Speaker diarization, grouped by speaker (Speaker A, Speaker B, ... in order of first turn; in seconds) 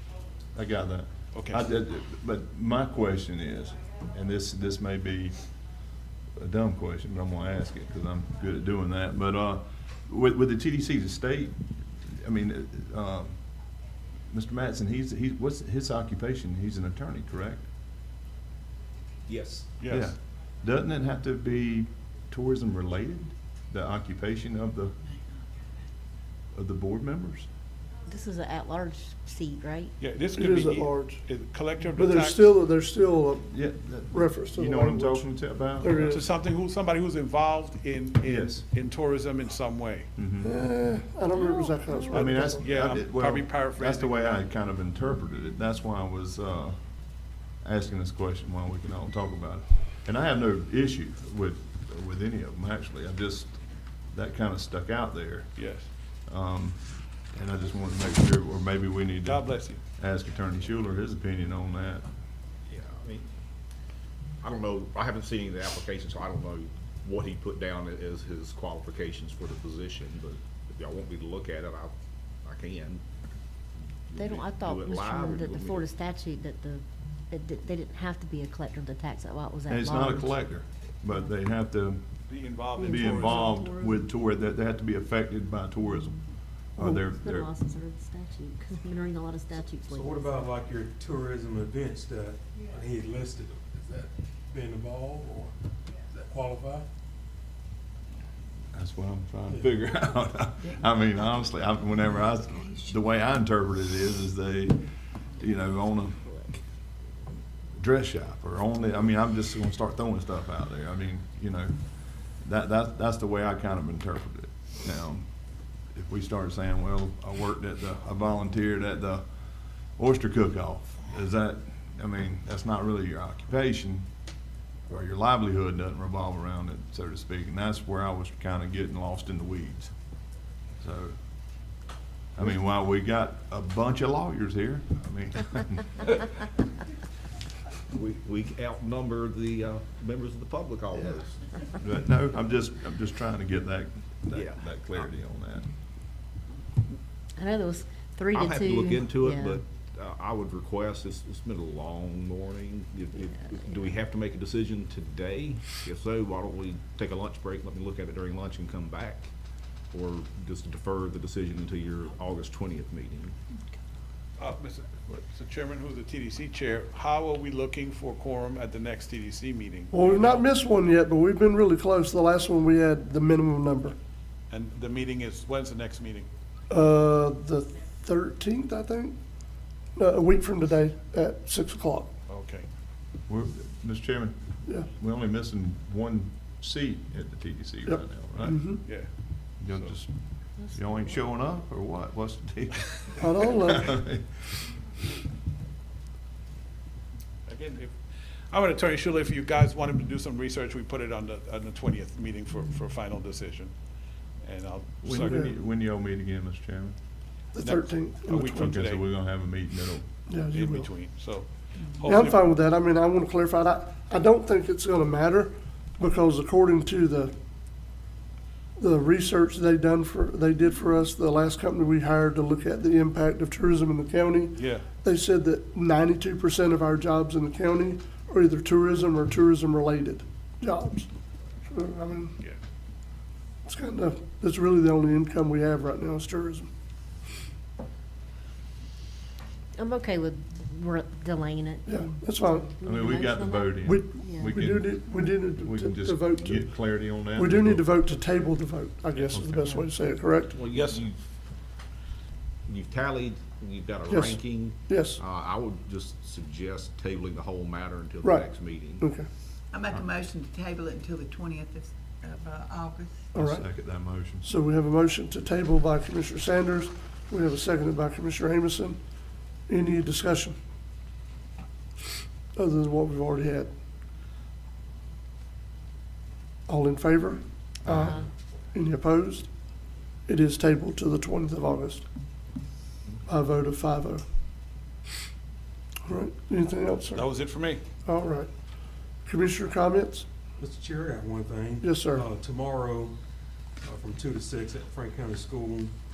Speaker A: 0.5-5.8, 6.3-17.7, 19.9-25.0, 26.5-27.5, 33.5-36.2, 38.2-38.6, 40.2-40.5, 42.1-62.1, 79.7-82.1, 82.8-87.5, 98.7-104.9, 105.4-106.3, 107.8-115.3, 115.9-124.1, 124.9-129.9, 130.8-131.2, 132.3-136.1, 141.8-145.7, 183.3-188.8, 189.6-194.7, 205.0-207.0, 208.3-210.1, 242.8-247.9, 263.3-264.5, 277.9-278.2
Speaker B: 1.3-1.6, 19.8-20.1, 30.0-32.5, 36.0-40.1, 42.1-44.5, 55.6-55.9, 59.2-59.8, 82.3-83.6, 164.4-170.5, 174.5-176.3, 182.3-182.7, 188.8-189.1, 197.5-197.9, 198.5-203.7, 204.4-205.5, 207.6-209.1, 210.5-212.4, 224.6-224.9, 250.7-251.0, 287.1-287.8
Speaker C: 19.3-19.7, 62.7-63.3, 64.4-73.0, 74.1-75.9, 137.9-141.5, 144.3-145.1, 148.3-159.3, 159.9-163.3, 250.5-251.2, 252.7-259.1
Speaker D: 28.1-29.9, 74.2-80.4, 82.8-84.0, 87.1-90.4, 147.4-149.6, 153.4-154.0, 190.6-191.2, 239.8-244.6, 249.5-249.9
Speaker E: 30.4-31.2, 32.0-33.5, 34.1-35.3, 35.8-36.2, 40.4-42.7, 86.8-87.0, 169.9-174.0, 176.7-179.2, 180.0-182.1, 187.9-188.8, 193.2-193.9, 205.2-205.5, 207.5-208.6, 210.3-210.9, 212.1-217.3, 218.8-231.1, 231.7-232.4, 233.7-236.7, 241.9-242.7, 243.8-250.6, 254.1-255.2, 258.2-259.3, 263.3-263.6, 264.4-269.0, 269.7-270.6, 272.6-273.7, 276.7-279.5, 280.3-282.1, 283.3-284.2, 286.1-287.3, 288.1-288.5, 289.2-290.3, 291.8-292.3
Speaker F: 89.9-95.5, 96.2-96.9, 290.6-293.2, 293.8-295.9
Speaker G: 259.7-263.3